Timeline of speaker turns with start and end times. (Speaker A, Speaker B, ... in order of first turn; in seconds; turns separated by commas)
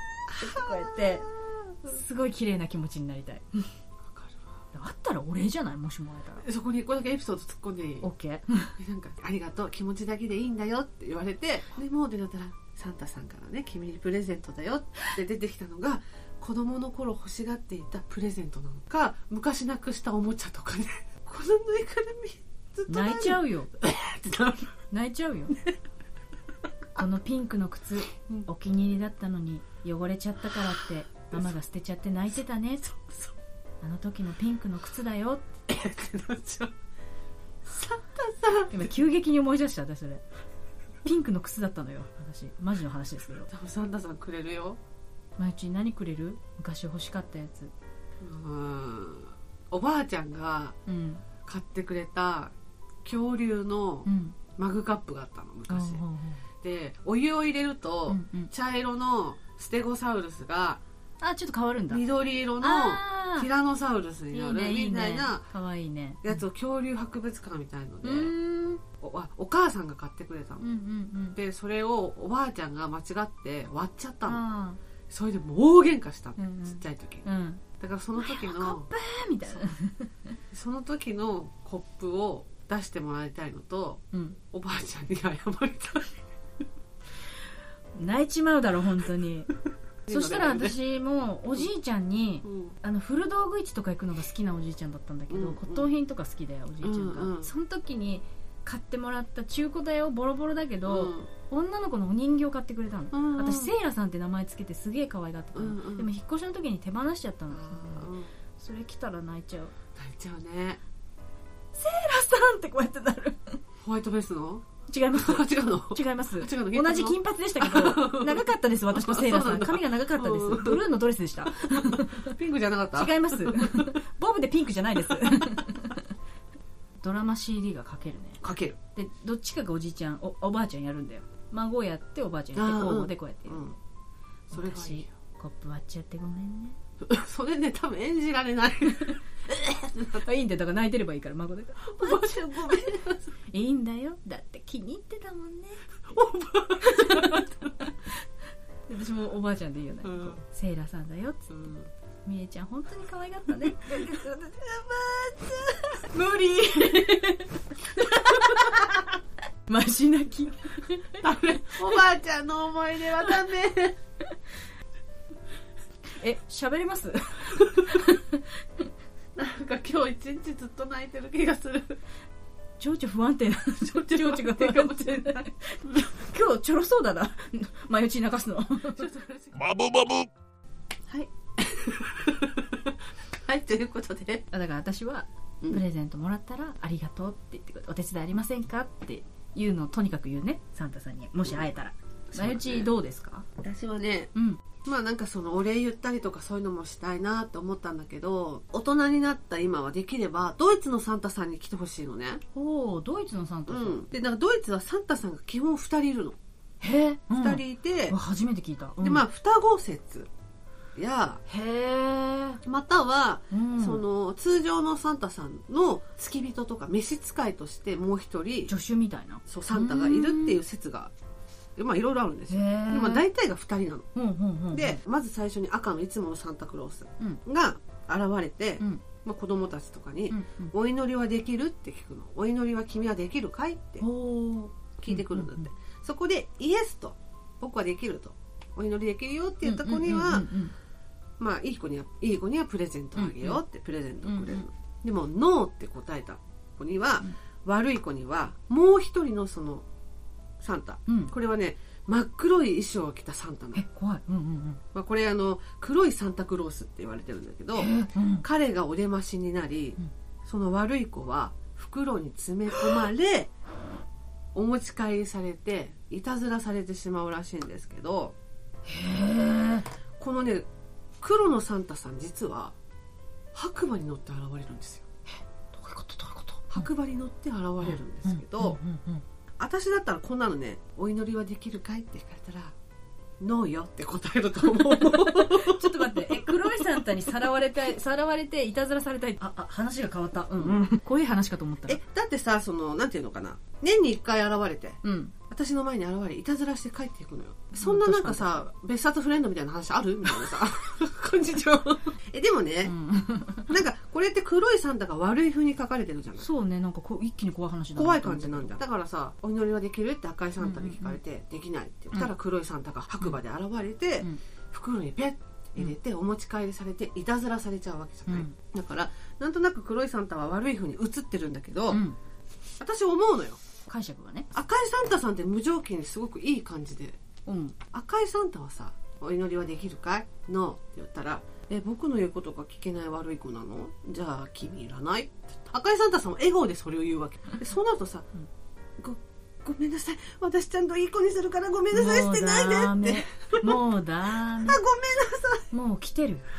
Speaker A: 0.3-1.3, Speaker B: 0.3-1.5, Speaker A: 1.8-3.7, Speaker B: 4.0-4.4, Speaker A: 4.7-6.4, Speaker B: 6.4-8.1, Speaker A: 8.0-8.7, Speaker B: 8.8-24.7, Speaker A: 22.9-23.7, Speaker A: 24.9-25.6, Speaker A: 26.9-32.9, Speaker A: 33.8-35.5, Speaker B: 35.7-36.7, Speaker B: 37.6-38.9, Speaker A: 38.7-40.2, Speaker A: 41.0-43.5, Speaker B: 43.5-44.8, Speaker A: 45.4-47.7, Speaker B: 48.2-50.8, Speaker A: 50.9-51.2, Speaker B: 51.4-52.5, Speaker B: 53.0-56.0, Speaker A: 54.0-54.4, Speaker A: 55.7-56.4, Speaker B: 56.6-60.8, Speaker A: 58.1-58.5, Speaker A: 61.2-62.0, Speaker B: 61.9-65.4, Speaker A: 62.6-63.5, Speaker A: 64.3-66.2, Speaker B: 66.2-68.3, Speaker A: 68.0-68.8, Speaker B: 69.0-70.6, Speaker A: 70.6-71.4, Speaker B: 71.3-74.4, Speaker A: 74.2-74.8, Speaker B: 75.1-77.2, Speaker A: 76.4-77.6, Speaker B: 77.8-78.9, Speaker A: 78.2-80.3, Speaker B: 80.5-86.1, Speaker A: 84.1-84.4, Speaker A: 87.9-89.5, Speaker B: 90.0-90.8, Speaker A: 90.1-109.7, Speaker B: 92.4-92.7, Speaker B: 95.3-95.9, Speaker B: 96.8-97.5, Speaker B: 100.8-101.3, Speaker B: 103.1-103.7, Speaker B: 105.5-106.1, Speaker B: 107.5-108.3, Speaker B: 110.0-110.8, Speaker A: 111.7-113.6, Speaker B: 113.8-120.9, Speaker A: 114.9-122.3, Speaker B: 121.6-124.0, Speaker A: 122.9-126.1, Speaker A: 127.0-128.4, Speaker B: 128.4-128.8, Speaker A: 128.9-133.6, Speaker B: 132.5-133.8, Speaker A: 134.5-136.8, Speaker B: 134.5-135.1, Speaker B: 137.0-140.2, Speaker A: 140.1-142.8, Speaker B: 141.9-143.2, Speaker A: 143.5-145.8, Speaker B: 146.1-147.7, Speaker A: 146.9-147.5, Speaker A: 148.9-151.5, Speaker B: 150.0-150.4, Speaker B: 151.5-151.9, Speaker A: 152.2-154.7, Speaker B: 153.9-155.5, Speaker A: 155.6-159.1, Speaker B: 158.2-158.9, Speaker A: 159.7-161.0, Speaker B: 161.2-164.0, Speaker A: 166.2-168.4, Speaker B: 169.3-172.0, Speaker A: 172.8-179.1, Speaker B: 173.8-176.0, Speaker B: 178.9-180.3, Speaker B: 181.1-184.4, Speaker A: 184.5-193.4, Speaker B: 192.3-192.9, Speaker B: 193.6-194.3, Speaker A: 194.3-194.6, Speaker B: 194.8-202.4, Speaker A: 202.5-204.1, Speaker B: 203.7-206.4, Speaker A: 206.8-209.2, Speaker B: 207.4-208.2, Speaker B: 209.0-210.3, Speaker B: 210.9-211.4, Speaker A: 211.5-212.6, Speaker B: 212.6-218.7, Speaker A: 213.5-214.0, Speaker A: 218.7-220.6, Speaker B: 219.4-221.1, Speaker B: 221.8-224.1, Speaker A: 222.5-223.2, Speaker A: 224.1-225.0, Speaker B: 224.7-234.0, Speaker A: 230.3-230.7, Speaker A: 234.0-235.7, Speaker B: 235.0-240.5, Speaker A: 239.6-240.7, Speaker B: 241.4-249.8, Speaker A: 243.2-243.6, Speaker A: 244.2-244.6, Speaker B: 250.6-253.8, Speaker A: 251.1-251.3, Speaker A: 253.7-254.8, Speaker B: 254.9-263.5, Speaker A: 257.7-258.4, Speaker B: 264.5-268.4, Speaker A: 268.9-269.9, Speaker B: 270.2-270.7, Speaker B: 271.2-272.7, Speaker B: 273.5-275.1, Speaker A: 275.3-276.9, Speaker B: 276.7-278.8, Speaker A: 277.8-279.2, Speaker B: 279.6-282.7, Speaker B: 283.4-286.5, Speaker A: 284.8-292.0, Speaker B: 291.9-302.9, Speaker A: 295.0-295.3, Speaker A: 297.8-298.6, Speaker A: 302.8-303.7, Speaker B: 303.7-306.5, Speaker A: 306.4-308.8, Speaker B: 307.9-322.0, Speaker A: 310.6-311.2, Speaker A: 318.3-318.6, Speaker A: 321.9-322.2, Speaker B: 322.8-323.6, Speaker A: 323.9-324.5, Speaker B: 324.5-327.2, Speaker A: 327.4-327.8, Speaker B: 327.9-338.3, Speaker B: 339.0-343.8, Speaker A: 341.9-344.8, Speaker B: 344.6-345.7, Speaker A: 345.7-346.5